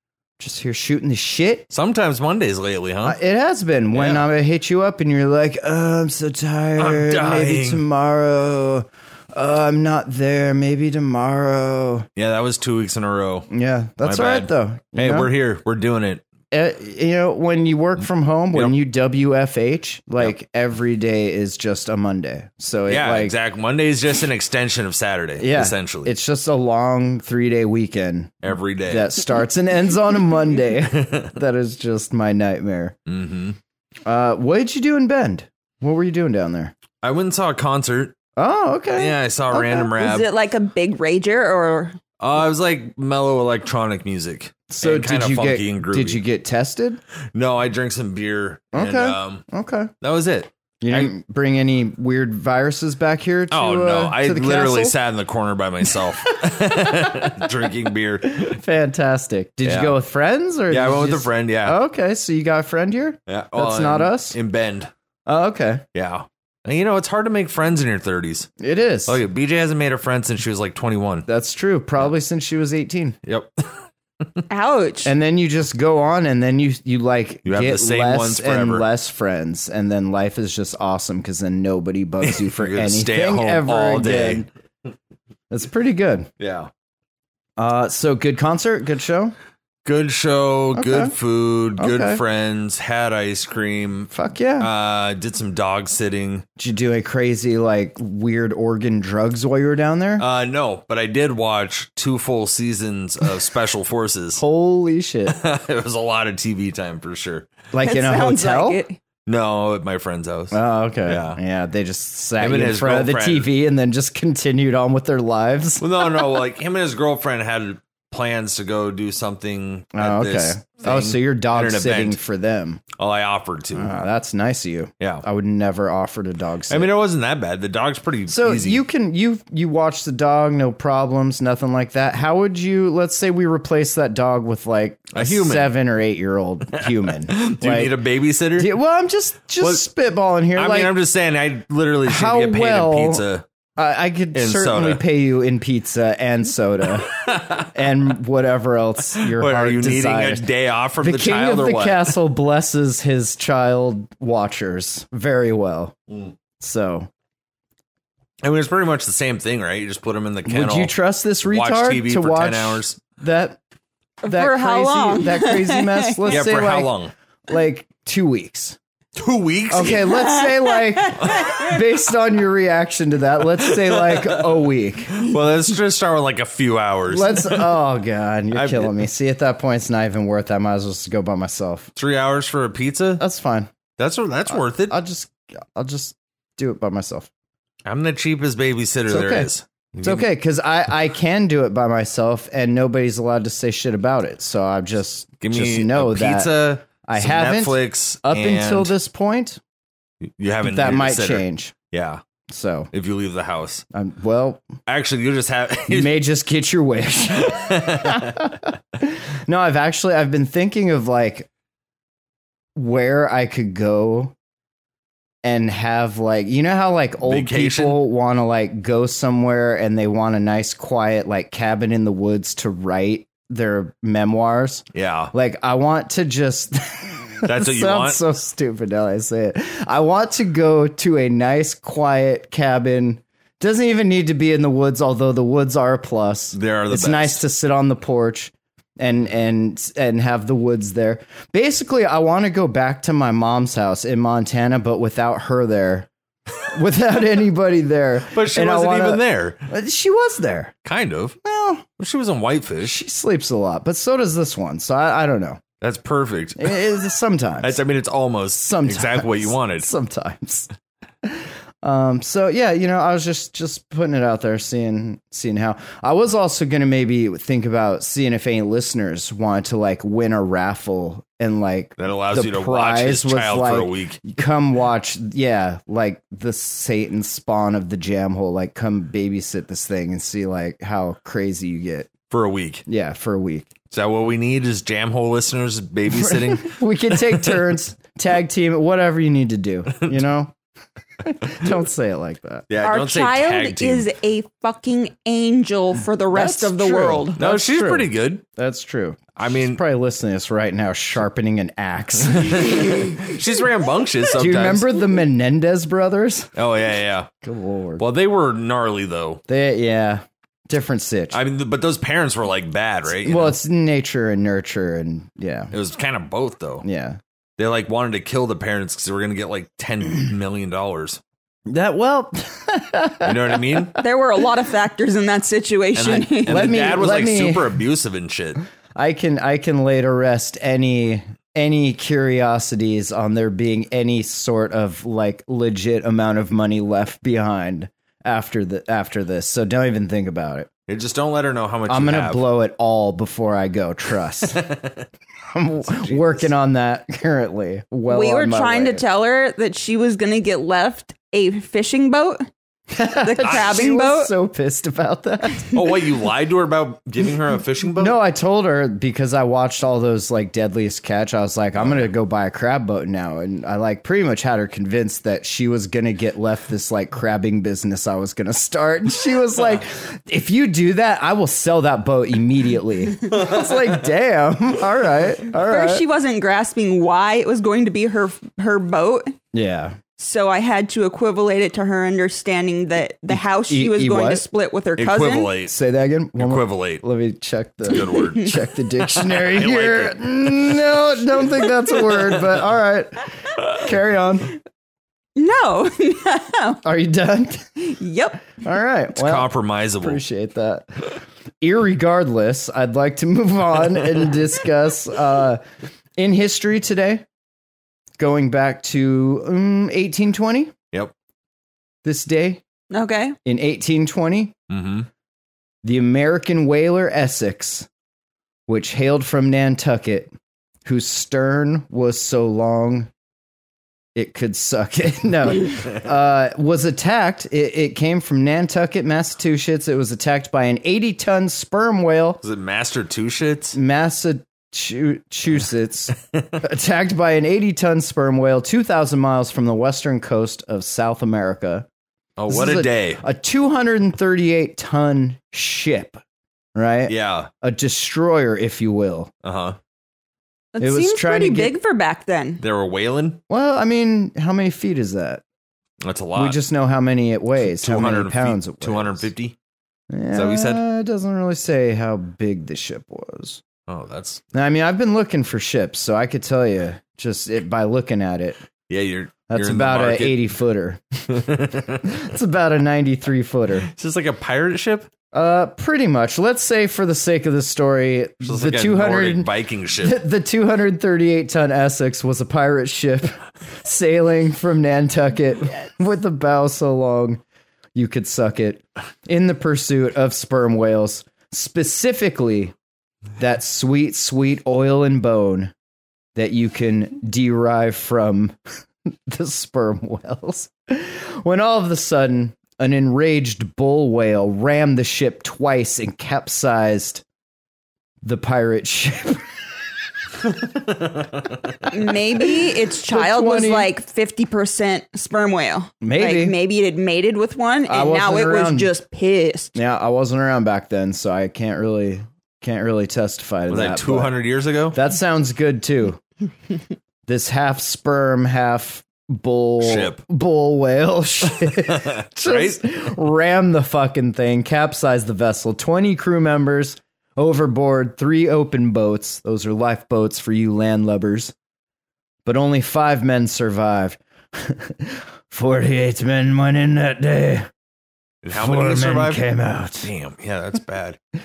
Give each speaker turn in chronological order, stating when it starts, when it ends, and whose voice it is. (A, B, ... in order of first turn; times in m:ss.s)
0:00.4-0:01.7 A
0:01.7-0:03.2 B
0:03.0-0:12.1 A
0:03.9-0:04.3 B
0:06.8-0:07.8 B
0:12.2-0:13.5 B
0:13.5-0:15.3 A
0:14.0-0:16.2 B
0:16.5-0:23.3 A
0:22.9-0:26.1 B
0:25.4-0:33.0 A
0:28.4-0:29.1 B
0:30.9-0:31.3 B
0:33.1-0:33.6 B
0:34.1-0:36.7 A
0:37.0-0:38.2 B
0:38.4-0:39.9 A
0:39.0-0:40.3 B
0:39.9-0:42.0 C
0:42.2-0:46.2 B
0:44.7-0:47.0 A
0:47.3-0:49.4 B
0:48.7-0:49.9 A
0:50.0-0:51.1 B
0:50.8-0:55.0 A
0:53.5-0:58.6 B
0:56.3-0:57.5 A
0:58.3-1:04.4 A
0:59.6-1:00.0 B
1:00.7-1:01.8 B
1:03.3-1:04.9 B
1:05.3-1:05.8 A
1:05.9-1:08.5 B
1:08.6-1:09.2 A
1:09.1-1:11.3 B
1:11.3-1:13.2 A
1:13.3-1:13.5 B
1:14.5-1:15.1 C
1:15.0-1:24.5 A
1:17.5-1:18.8 B
1:22.2-1:24.5 B
1:25.5-1:26.3 A
1:26.4-1:26.7 B
1:27.6-1:29.4 A
1:29.8-1:36.4 B
1:30.8-1:31.1 A
1:31.8-1:32.2 A
1:34.1-1:34.7 A
1:36.6-1:40.2 A
1:40.2-1:44.4 B
1:44.4-1:45.4 A
1:45.3-1:47.5 B
1:47.7-1:48.8 A
1:47.8-1:49.0 C
1:49.3-1:51.4 B
1:50.5-1:56.4 A
1:52.4-1:53.5 B
1:55.8-2:02.2 B
1:59.9-2:02.8 A
2:03.0-2:03.9 B
2:03.8-2:06.9 A
2:05.0-2:05.2 B
2:06.7-2:08.8 B
2:08.3-2:18.0 A
2:15.1-2:15.8 B
2:17.3-2:18.7 B
2:18.6-2:21.0 A
2:19.6-2:19.8 B
2:20.6-2:23.4 B
2:22.0-2:23.2 A
2:23.8-2:30.5 A
2:24.3-2:25.0 B
2:27.1-2:27.7 B
2:29.4-2:32.1 B
2:31.0-2:36.0 A
2:36.6-2:37.1 A
2:38.4-2:43.0 B
2:40.5-2:43.6 A
2:44.2-2:46.4 C
2:44.2-2:47.0 A
2:46.3-2:47.1 B
2:47.5-2:48.8 A
2:49.2-2:50.3 B
2:49.7-2:55.3 A
2:51.1-2:51.7 C
2:53.9-2:54.4 B
2:55.1-2:57.7 B
2:57.1-3:01.9 A
2:58.5-2:59.0 B
3:02.0-3:03.2 B
3:03.2-3:03.7 A
3:04.0-3:05.0 B
3:04.5-3:07.3 A
3:07.9-3:10.3 B
3:09.1-3:09.5 A
3:10.0-3:19.6 A
3:15.4-3:18.9 B
3:20.4-3:22.2 B
3:20.6-3:21.8 A
3:22.5-3:22.9 A
3:22.9-3:23.8 B
3:23.9-3:24.7 A
3:24.9-3:26.1 B
3:25.9-3:31.5 A
3:27.4-3:28.4 B
3:32.8-3:34.3 A
3:35.4-4:10.7 A
3:37.2-3:38.0 B
3:44.9-3:45.3 B
3:47.4-3:48.2 B
3:56.5-3:57.4 B
4:08.3-4:09.7 B
4:10.8-4:11.4 B
4:11.4-4:11.8 A
4:12.0-4:13.0 B
4:12.8-4:15.6 A
4:15.8-4:16.8 B
4:16.6-4:17.8 A
4:17.6-4:19.9 B
4:18.6-4:20.7 A
4:21.2-4:42.1 A
4:32.0-4:34.2 B
4:42.3-4:42.8 B
4:42.9-4:43.8 A
4:43.9-4:47.6 B
4:46.1-4:50.5 A
4:51.2-4:52.7 A
4:52.7-4:54.1 B
4:52.8-4:57.4 C
4:56.3-5:03.2 A
4:57.4-4:58.4 B
4:59.4-4:59.8 B
5:02.4-5:04.9 B
5:04.3-5:06.5 A
5:06.6-5:07.3 B
5:07.4-5:08.0 A
5:08.0-5:09.4 B
5:09.5-5:11.4 A
5:11.3-5:13.6 B
5:13.2-5:15.7 A
5:15.7-5:16.8 B
5:16.8-5:17.2 A
5:17.6-5:21.2 B
5:21.7-5:23.9 A
5:23.2-5:24.0 B
5:24.0-5:26.8 C
5:26.0-5:28.6 B
5:26.4-5:27.8 A
5:29.0-5:40.7 A
5:40.9-5:42.4 B
5:41.9-5:44.7 A
5:44.5-5:45.0 B
5:45.5-5:49.0 A
5:45.9-5:46.5 B
5:48.1-5:52.4 C
5:52.9-5:56.0 A
5:53.2-5:54.3 C
5:53.4-5:53.7 B
5:55.7-5:58.2 B
5:58.0-6:16.0 A
6:01.8-6:02.1 B
6:15.7-6:19.3 C
6:19.5-6:20.0 A
6:20.2-6:25.5 C
6:23.3-6:24.4 A
6:25.0-6:25.8 B
6:25.7-6:34.6 A
6:26.4-6:27.0 B
6:27.9-6:30.8 B
6:35.4-6:36.8 C
6:36.8-6:37.8 A
6:37.8-6:38.5 C
6:38.6-6:45.6 A
6:39.2-6:40.2 B
6:46.2-6:47.2 A
6:48.2-6:50.7 A
6:52.0-6:52.6 A
6:52.9-6:53.4 C
6:53.4-6:54.6 A
6:54.7-6:55.1 B
6:55.8-6:57.9 A
6:58.7-7:00.3 A
7:00.8-7:03.1 A
7:04.2-7:12.4 A
7:12.4-7:13.8 B
7:13.7-7:21.9 A
7:22.4-7:23.2 B
7:22.5-7:26.2 A
7:26.8-7:29.3 A
7:27.1-7:27.5 B
7:29.4-7:29.8 B
7:30.7-7:32.6 C
7:30.8-7:31.8 A
7:32.6-7:33.4 B
7:33.5-7:35.4 A
7:36.0-7:36.6 B
7:36.4-7:39.3 A
7:37.6-7:39.6 B
7:40.1-7:43.6 A
7:40.3-7:40.8 B
7:43.9-7:44.4 B
7:44.5-7:48.6 A
7:48.9-7:50.5 B
7:49.5-7:51.0 A
7:51.3-7:52.2 B
7:52.0-7:53.9 A
7:53.9-7:55.1 B
7:55.3-8:07.4 A
7:58.4-8:00.2 B
8:08.0-8:12.7 A
8:13.4-8:15.7 A
8:16.4-8:18.6 A
8:19.3-8:27.2 A
8:28.2-8:29.4 A
8:31.0-8:31.3 B
8:31.9-8:39.8 C
8:32.6-8:33.9 A
8:36.0-8:36.6 A
8:37.9-8:38.9 A
8:39.8-8:44.3 A
8:43.7-8:45.0 B
8:44.9-8:46.2 A
8:47.3-9:01.5 A
8:49.8-8:50.2 B
8:51.6-8:52.8 B
9:02.4-9:07.7 A
9:08.4-9:09.4 B
9:08.5-9:10.1 A
9:10.0-9:11.2 B